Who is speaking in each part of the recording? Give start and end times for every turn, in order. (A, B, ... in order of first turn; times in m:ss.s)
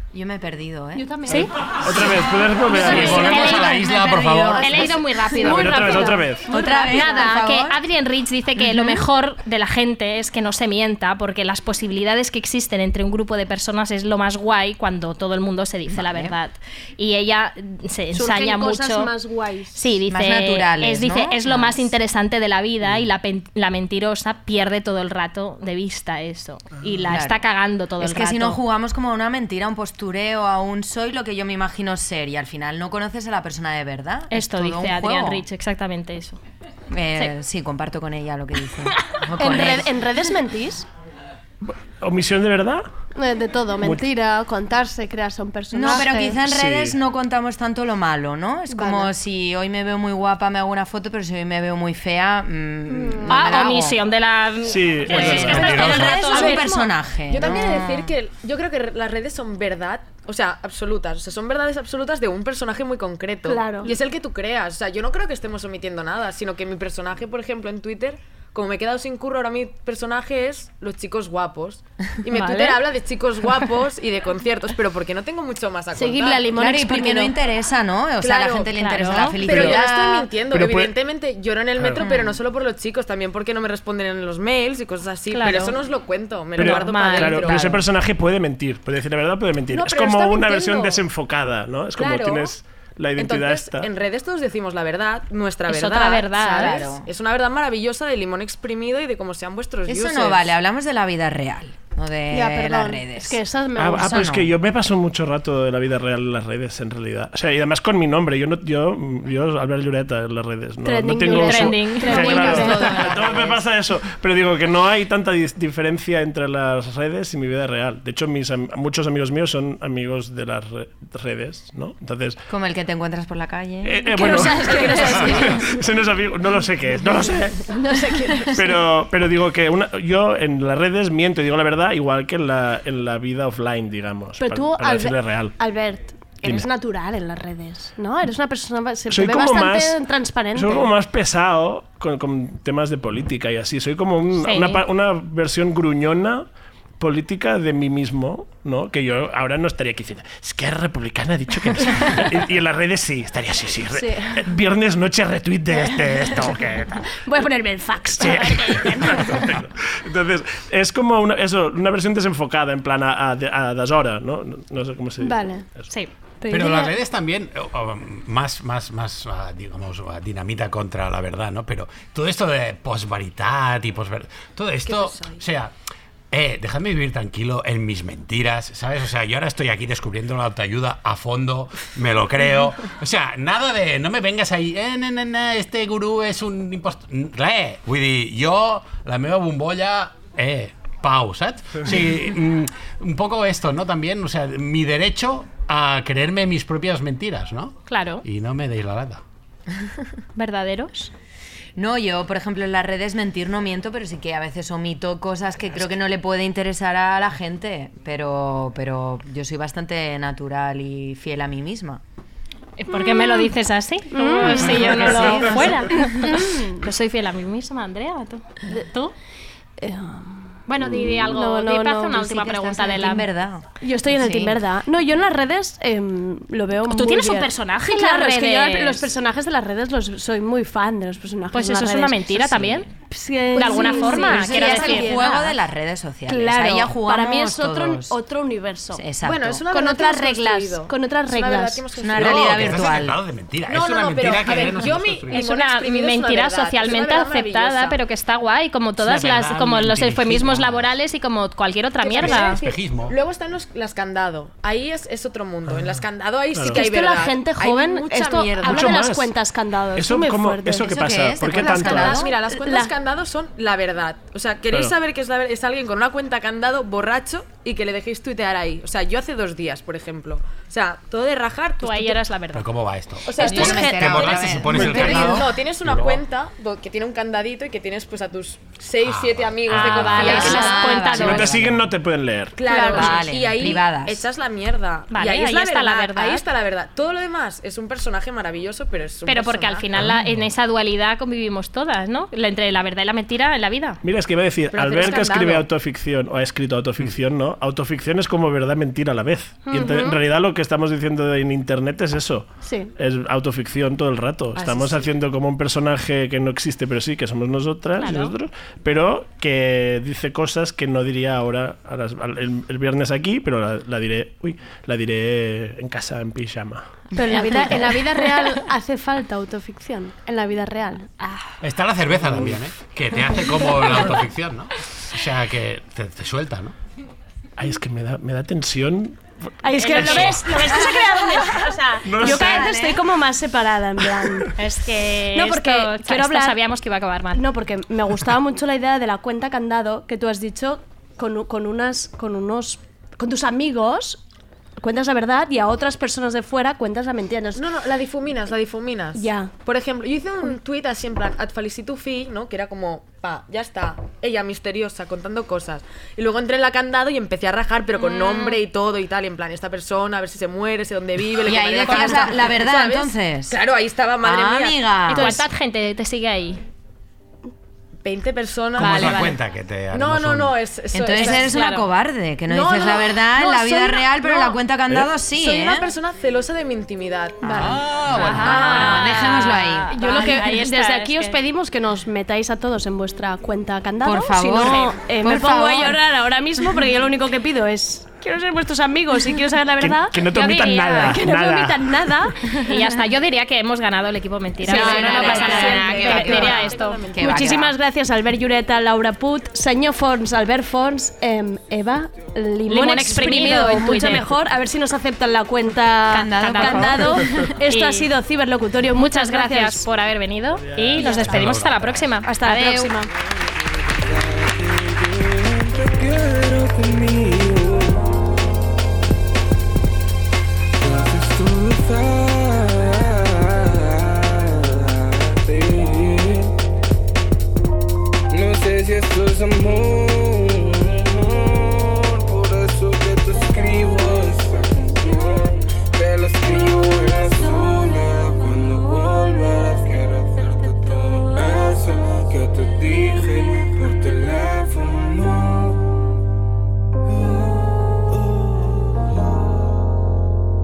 0:00.1-0:01.1 A
0:01.0-0:01.5 B
0:01.8-0:03.2 C
0:02.7-0:05.7 A
0:02.8-0:03.9 D
0:02.8-0:03.3 B
0:02.9-0:04.8 E
0:04.6-0:19.1 D
0:04.8-0:07.3 B
0:05.4-0:06.5 C
0:06.5-0:07.8 A
0:08.6-0:09.0 A
0:15.9-0:16.3 A
0:18.1-0:19.8 B
0:19.7-0:28.6 D
0:20.1-0:21.9 A
0:27.1-0:27.4 A
0:28.0-0:35.4 A
0:34.3-0:36.4 D
0:36.9-0:39.9 A
0:39.4-0:40.9 B
0:41.6-0:42.8 C
0:43.1-0:46.4 B
0:45.7-0:54.0 A
0:46.4-0:47.0 C
0:48.7-0:49.1 B
0:52.9-0:53.5 B
0:53.3-0:56.7 D
0:54.6-0:55.8 C
0:55.1-0:56.3 E
0:55.2-0:56.9 B
0:55.7-0:58.1 A
0:55.9-0:56.6 F
0:57.3-1:16.5 F
1:03.4-1:04.0 B
1:12.3-1:12.8 D
1:12.4-1:12.7 B
1:15.9-1:17.3 B
1:16.5-1:20.2 A
1:18.2-1:18.7 F
1:18.7-1:19.4 D
1:19.4-1:27.8 F
1:19.5-1:19.8 C
1:19.7-1:20.2 B
1:20.5-1:20.9 C
1:22.0-1:22.4 A
1:25.3-1:25.8 D
1:26.6-1:27.6 D
1:26.6-1:33.9 C
1:29.7-1:31.0 B
1:32.0-1:32.5 F
1:33.2-1:40.5 F
1:35.6-1:36.9 D
1:36.6-1:37.1 A
1:39.9-1:43.4 A
1:42.3-1:44.3 B
1:43.8-2:02.4 C
1:44.0-1:44.5 A
1:50.8-1:53.1 B
1:51.3-1:52.9 D
1:52.5-1:53.5 A
1:52.8-1:53.5 F
2:02.5-2:04.4 A
2:03.8-2:07.6 C
2:04.1-2:05.7 B
2:07.7-2:08.8 B
2:08.5-2:15.6 C
2:14.4-2:20.9 B
2:19.1-2:20.0 C
2:20.5-2:26.4 C
2:24.4-2:24.8 D
2:27.0-2:37.1 C
2:33.9-2:34.4 B
2:35.8-2:36.4 B
2:37.1-2:39.5 B
2:38.2-2:45.9 C
2:45.2-2:45.6 B
2:46.4-2:46.9 B
2:46.5-2:55.7 E
2:54.8-2:55.4 F
2:56.3-3:19.2 E
3:17.9-3:18.2 D
3:20.4-3:21.1 D
3:21.8-3:32.0 A
3:32.8-3:39.1 D
3:32.9-3:33.5 B
3:34.1-3:36.8 B
3:34.5-3:35.7 A
3:39.8-3:42.2 B
3:40.7-3:43.3 D
3:42.1-3:44.5 A
3:43.8-3:55.6 B
3:46.8-3:49.1 D
3:51.5-3:52.9 D
3:53.5-3:55.2 D
3:53.7-3:58.2 A
3:56.3-3:59.0 B
3:59.0-3:59.7 A
3:59.2-4:03.1 F
3:59.7-4:01.8 B
4:01.9-4:03.2 A
4:02.1-4:05.4 E
4:03.6-4:08.0 F
4:05.3-4:12.6 D
4:09.0-4:10.9 E
4:12.0-4:19.0 F
4:12.2-4:13.2 E
4:16.5-4:16.8 C
4:16.7-4:21.0 B
4:18.6-4:19.3 C
4:19.9-4:22.1 C
4:20.8-4:22.3 A
4:21.5-4:22.9 B
4:21.8-4:32.2 F
4:31.8-4:32.7 D
4:32.5-4:36.2 E
4:33.2-4:41.8 F
4:33.3-4:35.4 A
4:33.4-4:34.5 D
4:39.0-4:40.7 E
4:39.6-4:41.6 D
4:40.2-4:41.2 B
4:40.2-4:40.5 C
4:41.2-4:42.6 C
4:41.4-4:41.7 A
4:42.5-4:49.9 F
4:42.7-4:43.1 B
4:42.9-4:44.2 A
4:45.1-4:46.5 D
4:49.2-4:54.0 D
4:49.9-4:50.2 E
4:54.0-5:17.0 C
4:54.7-4:55.7 F
4:59.7-5:00.2 B
5:02.6-5:02.9 B
5:04.5-5:05.1 F
5:08.0-5:08.3 D
5:17.2-5:21.1 B
5:21.6-5:26.7 E
5:22.2-5:22.5 C
5:27.6-5:29.2 C
5:29.6-5:34.5 B
5:29.8-5:30.8 D
5:29.8-5:30.5 C
5:31.4-5:32.7 D
5:32.0-5:32.7 C
5:32.2-5:33.0 A
5:34.6-5:37.4 D
5:35.3-5:36.6 B
5:37.3-5:44.2 B
5:44.8-5:47.6 B
5:47.6-6:04.9 F
5:49.1-5:49.5 B
5:58.0-5:58.6 D
6:01.4-6:03.6 A
6:01.9-6:02.3 D
6:04.2-6:05.4 A
6:05.1-6:06.6 D
6:08.0-6:09.4 F
6:08.8-6:10.6 E
6:08.8-6:09.4 D
6:09.9-6:11.6 F
6:10.9-6:15.9 A
6:11.2-6:11.8 D
6:12.5-6:19.2 F
6:17.4-6:20.0 A
6:17.5-6:17.7 B
6:17.5-6:18.5 E
6:18.1-6:21.4 D
6:18.8-6:32.5 B
6:24.0-6:26.0 A
6:24.6-6:25.0 D
6:29.8-6:32.0 C
6:30.4-6:30.8 D
6:32.5-6:37.0 D
6:34.6-6:49.8 B
6:34.7-6:37.7 A
6:34.8-6:37.3 F
6:42.7-6:44.2 D
6:46.1-6:47.2 D
6:46.1-6:47.5 A
6:47.7-6:48.1 D
6:49.0-6:52.9 D
6:51.0-6:51.5 B
6:51.0-6:52.1 E
6:52.2-6:53.1 B
6:53.9-6:58.1 G
7:00.8-7:06.5 G
7:08.3-7:25.9 G
7:27.1-7:29.7 G